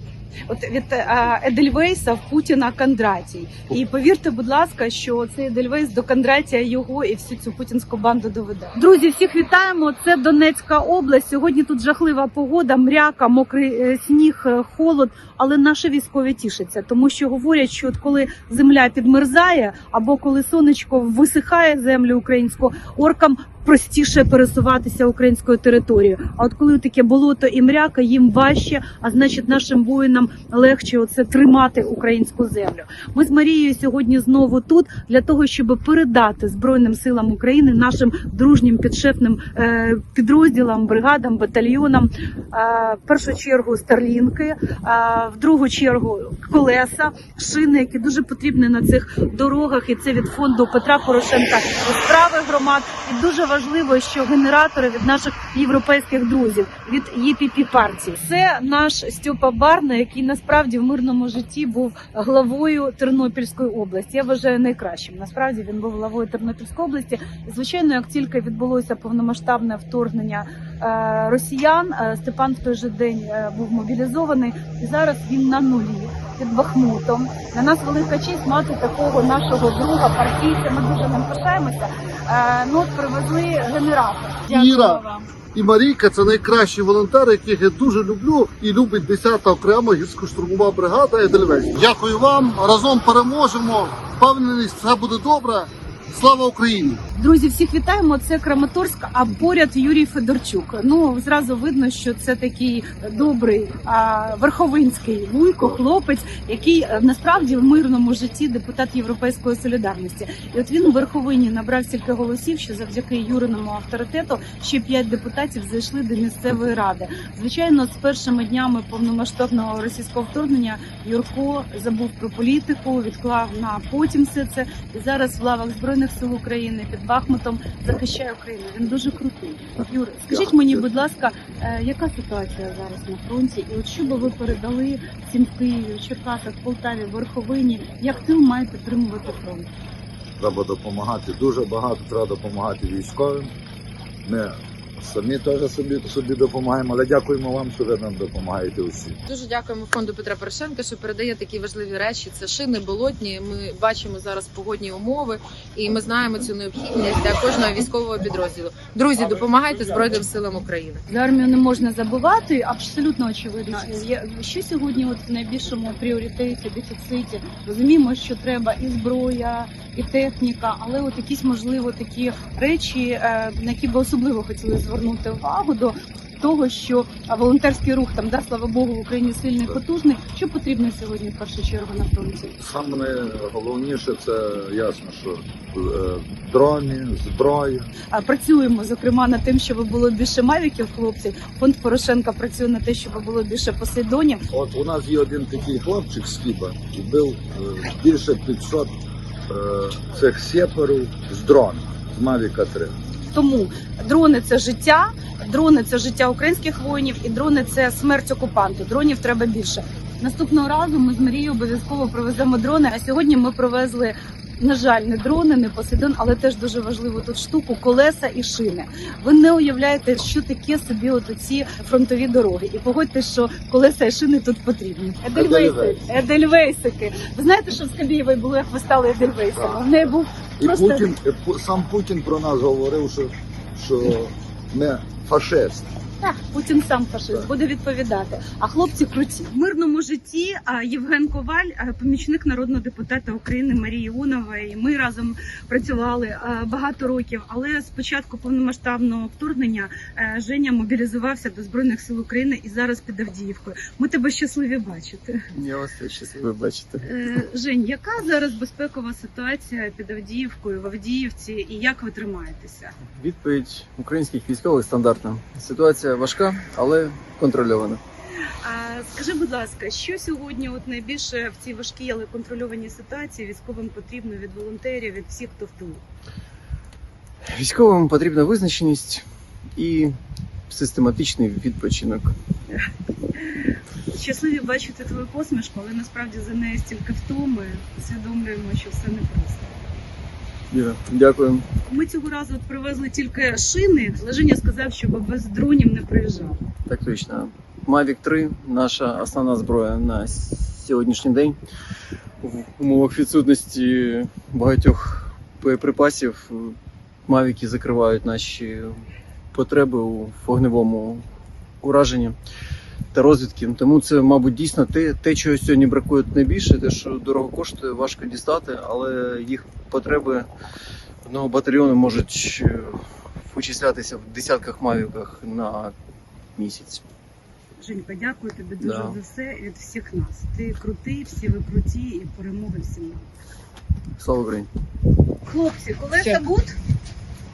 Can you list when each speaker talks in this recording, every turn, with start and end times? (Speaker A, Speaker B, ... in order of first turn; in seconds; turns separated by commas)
Speaker A: 0.5-84.5, Speaker B: 84.5-97.0, Speaker C: 84.6-85.3, Speaker A: 97.2-139.7, Speaker D: 130.3-130.9, Speaker D: 140.4-143.5, Speaker D: 144.2-149.2, Speaker C: 149.3-161.0, Speaker A: 161.1-182.6, Speaker D: 182.6-187.9, Speaker A: 188.1-194.4, Speaker D: 194.5-198.9, Speaker D: 199.5-203.0, Speaker A: 203.3-231.1, Speaker D: 225.3-226.0, Speaker D: 229.6-229.9, Speaker D: 230.6-235.9, Speaker A: 236.2-255.4, Speaker E: 255.5-257.1, Speaker A: 257.0-263.0, Speaker E: 263.1-268.0, Speaker A: 268.6-276.0, Speaker E: 277.5-279.2, Speaker E: 279.8-280.1, Speaker E: 280.7-282.4, Speaker A: 284.1-289.7, Speaker E: 290.7-291.6, Speaker A: 291.9-296.6, Speaker E: 296.9-301.6, Speaker E: 302.4-309.0, Speaker E: 309.5-311.2, Speaker E: 311.8-312.4, Speaker E: 313.1-320.5, Speaker E: 321.2-325.9, Speaker E: 326.6-327.0, Speaker A: 327.8-333.3, Speaker E: 328.8-329.2, Speaker E: 334.2-334.7, Speaker A: 335.4-336.8